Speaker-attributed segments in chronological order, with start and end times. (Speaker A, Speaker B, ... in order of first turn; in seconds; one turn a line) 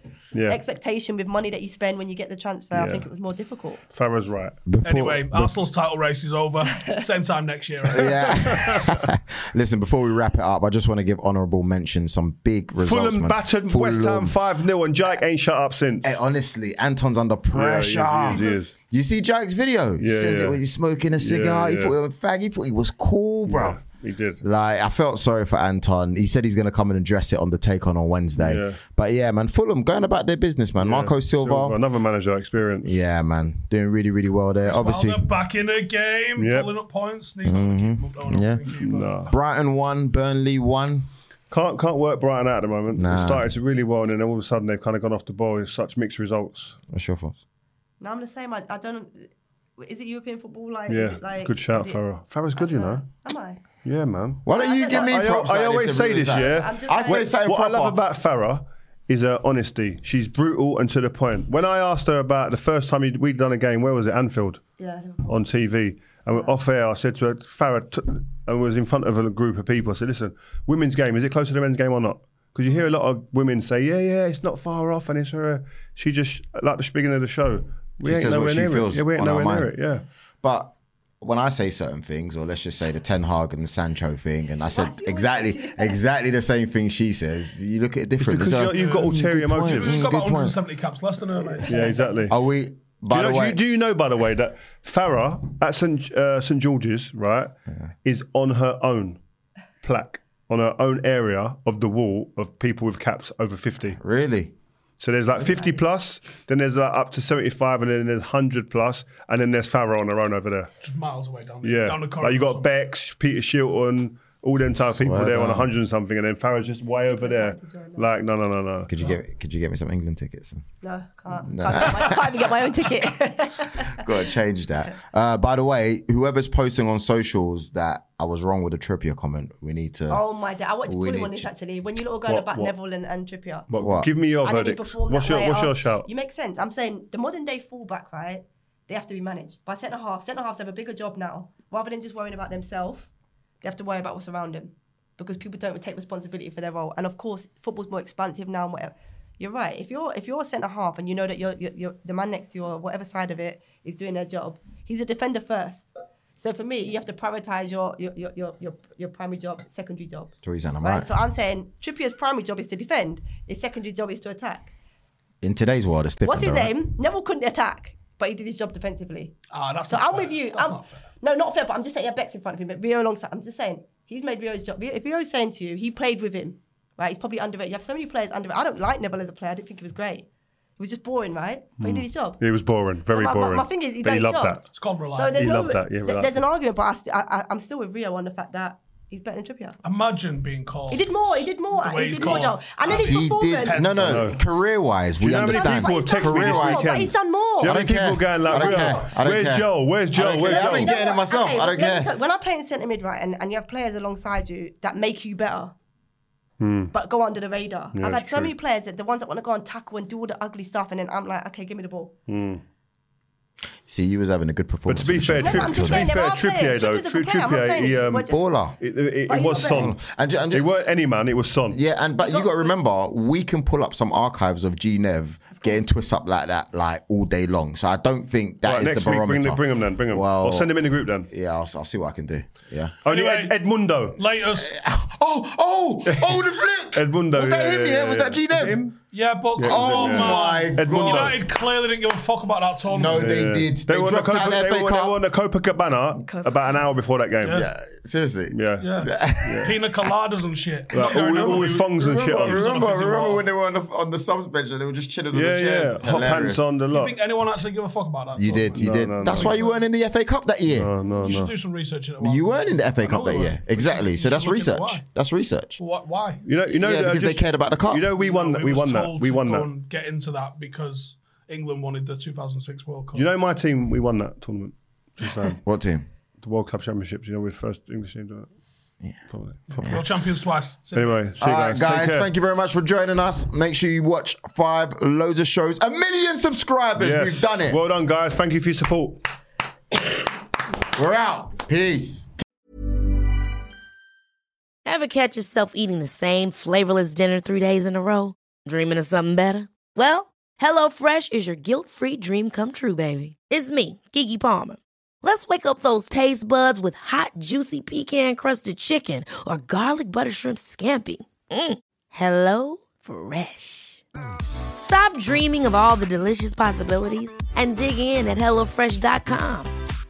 Speaker A: 0.3-0.6
Speaker B: 0.5-3.8
Speaker A: 2.7-3.1
Speaker A: 3.9-4.6
Speaker C: 4.7-5.5
Speaker D: 4.8-8.7
Speaker C: 7.9-14.4
Speaker A: 8.3-9.0
Speaker A: 12.8-16.2
Speaker C: 16.0-23.8
Speaker A: 17.5-18.7
Speaker A: 20.0-20.6
Speaker A: 21.1-21.9
Speaker A: 23.5-24.4
Speaker C: 24.4-31.8
Speaker A: 28.4-28.8
Speaker A: 30.8-33.0
Speaker C: 32.8-35.3
Speaker D: 34.6-39.1
Speaker A: 36.4-36.7
Speaker C: 37.4-38.6
Speaker A: 38.8-39.3
Speaker C: 39.3-41.1
Speaker A: 41.5-46.8
Speaker C: 42.9-43.5
Speaker C: 46.9-47.4
Speaker B: 48.0-52.0
Speaker A: 50.9-53.0
Speaker B: 52.6-53.6
Speaker A: 53.8-64.6
Speaker C: 54.5-58.0
Speaker B: 54.5-55.3
Speaker B: 56.3-57.4
Speaker B: 64.8-65.3
Speaker A: 65.3-80.0
Speaker C: 78.0-79.7
Speaker C: 80.4-90.6
Speaker B: 84.7-86.0
Speaker A: 88.2-90.1
Speaker D: 88.7-92.1
Speaker A: 91.7-92.3
Speaker C: 92.3-93.6
Speaker A: 93.1-99.2
Speaker A: 99.8-104.0
Speaker C: 104.0-104.5
Speaker A: 105.0-110.7
Speaker D: 110.8-112.6
Speaker A: 111.6-118.9
Speaker C: 114.9-115.7
Speaker B: 117.2-118.1
Speaker C: 118.9-120.7
Speaker B: 120.8-124.1
Speaker C: 121.5-122.5
Speaker C: 123.9-130.2
Speaker B: 130.1-133.7
Speaker C: 130.9-131.5
Speaker A: 132.3-132.7
Speaker A: 133.7-136.1
Speaker C: 133.8-134.1
Speaker B: 134.4-143.1
Speaker B: 143.6-155.8
Speaker B: 156.4-164.7
Speaker C: 160.4-161.1
Speaker C: 165.4-166.8
Speaker B: 166.2-169.4
Speaker D: 169.5-171.1
Speaker B: 169.9-180.3
Speaker B: 180.8-182.4
Speaker A: 181.8-184.7
Speaker B: 183.1-184.6
Speaker D: 184.7-185.4
Speaker B: 185.1-189.8
Speaker A: 185.4-186.4
Speaker D: 189.8-194.4
Speaker B: 190.9-193.9
Speaker C: 192.2-196.9
Speaker A: 194.0-194.4
Speaker A: 195.2-200.9
Speaker B: 195.4-197.8
Speaker C: 197.6-202.1
Speaker D: 198.5-199.1
Speaker B: 200.4-205.8
Speaker A: 206.6-206.9
Speaker B: 206.9-212.1
Speaker A: 207.9-208.5
Speaker A: 212.3-212.6
Speaker C: 213.9-216.2
Speaker A: 214.9-221.8
Speaker B: 215.4-218.4
Speaker C: 218.3-218.8
Speaker B: 219.3-219.9
Speaker C: 219.5-220.7
Speaker C: 221.7-230.7
Speaker B: 222.2-222.7
Speaker A: 228.6-231.3
Speaker C: 231.3-233.0
Speaker A: 233.0-234.2
Speaker D: 233.1-233.6
Speaker D: 234.2-234.8
Speaker C: 234.6-238.8
Speaker A: 236.1-236.4
Speaker A: 236.9-239.0
Speaker D: 239.1-243.6
Speaker A: 239.6-241.4
Speaker C: 239.6-241.4
Speaker C: 242.9-245.2
Speaker A: 243.1-247.7
Speaker B: 246.2-246.8
Speaker D: 247.4-247.7
Speaker C: 247.5-249.8
Speaker A: 248.5-249.8
Speaker D: 248.8-253.4
Speaker A: 250.9-252.7
Speaker C: 252.4-256.7
Speaker A: 255.3-257.2
Speaker D: 256.9-259.8
Speaker C: 258.4-260.9
Speaker A: 258.8-259.6
Speaker A: 260.7-261.5
Speaker D: 261.1-265.0
Speaker C: 262.2-265.8
Speaker D: 265.8-266.4
Speaker A: 266.4-269.7
Speaker C: 266.7-268.1
Speaker D: 268.2-273.3
Speaker A: 273.1-275.6
Speaker C: 275.6-276.1
Speaker A: 276.4-278.5
Speaker A: 279.3-280.0
Speaker D: 279.7-281.2
Speaker C: 279.8-280.0
Speaker A: 280.9-282.3
Speaker C: 281.4-287.8
Speaker A: 287.0-289.2
Speaker C: 290.9-292.3
Speaker E: 294.9-314.0
Speaker E: 314.8-319.7